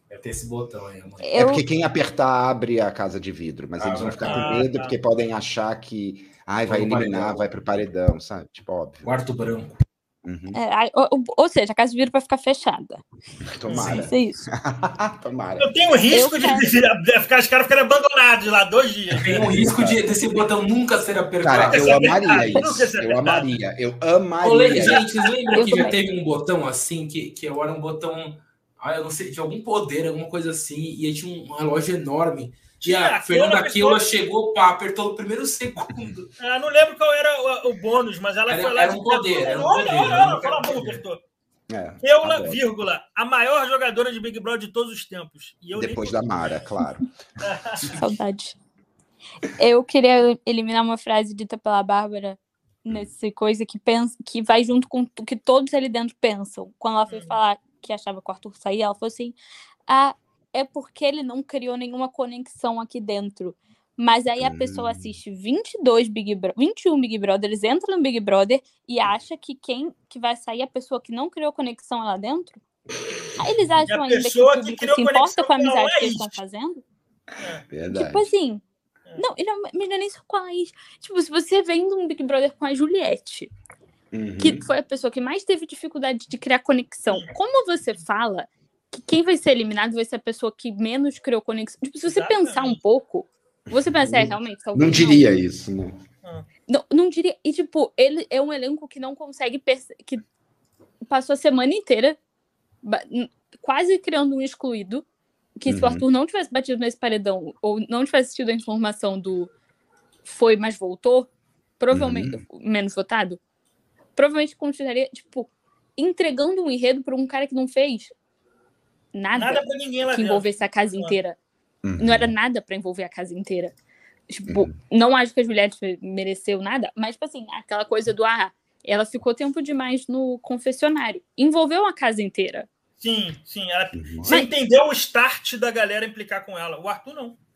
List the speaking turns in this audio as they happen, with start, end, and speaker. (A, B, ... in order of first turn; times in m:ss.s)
0:00.1-0:01.3 A
0:01.2-0:01.6 B
0:01.3-0:09.1 C
0:03.8-0:04.6 A
0:04.2-0:04.9 D
0:06.7-0:07.5 A
0:09.0-0:09.8 A
0:10.2-0:10.6 C
0:10.5-0:13.0 B
0:13.4-0:15.7 C
0:13.6-0:14.0 D
0:13.7-0:14.1 A
0:14.0-0:14.5 B
0:15.6-0:19.7 D
0:16.1-0:16.7 B
0:19.1-0:22.1 A
0:19.5-0:20.1 C
0:21.4-0:25.0 C
0:21.7-0:23.5 D
0:24.4-0:36.3 A
0:24.7-0:25.5 D
0:25.5-0:26.0 B
0:32.8-0:34.0 D
0:36.4-0:41.2 D
0:38.5-0:41.0 A
0:39.5-0:40.0 C
0:41.7-0:42.6 C
0:42.0-0:46.2 D
0:45.7-0:47.1 C
0:47.4-0:48.0 D
0:47.9-0:48.6 B
0:49.5-0:59.4 B
0:57.1-0:57.4 D
0:59.9-1:12.6 B
1:04.4-1:05.1 C
1:13.4-1:16.8 B
1:13.9-1:16.3 D
1:17.4-1:17.6 D
1:17.7-1:18.3 C
1:17.9-1:18.6 B
1:19.2-1:23.5 B
1:24.1-1:24.6 C
1:24.4-1:35.2 B
1:32.1-1:32.8 D
1:33.7-1:36.0 C
1:36.7-1:40.2 B
1:41.1-1:42.2 B
1:42.8-1:45.0 B
1:45.6-1:49.5 B
1:45.7-1:46.0 C
1:50.2-1:51.3 B
1:51.8-1:53.4 B
1:51.9-1:52.4 C
1:54.2-1:58.1 B
1:59.1-2:01.4 B
1:59.4-2:01.1 D
2:01.8-2:02.3 C
2:02.0-2:03.7 B
2:04.3-2:12.7 B
2:04.5-2:04.7 C
2:13.0-2:17.4 D
2:13.9-2:14.3 C
2:14.2-2:14.5 B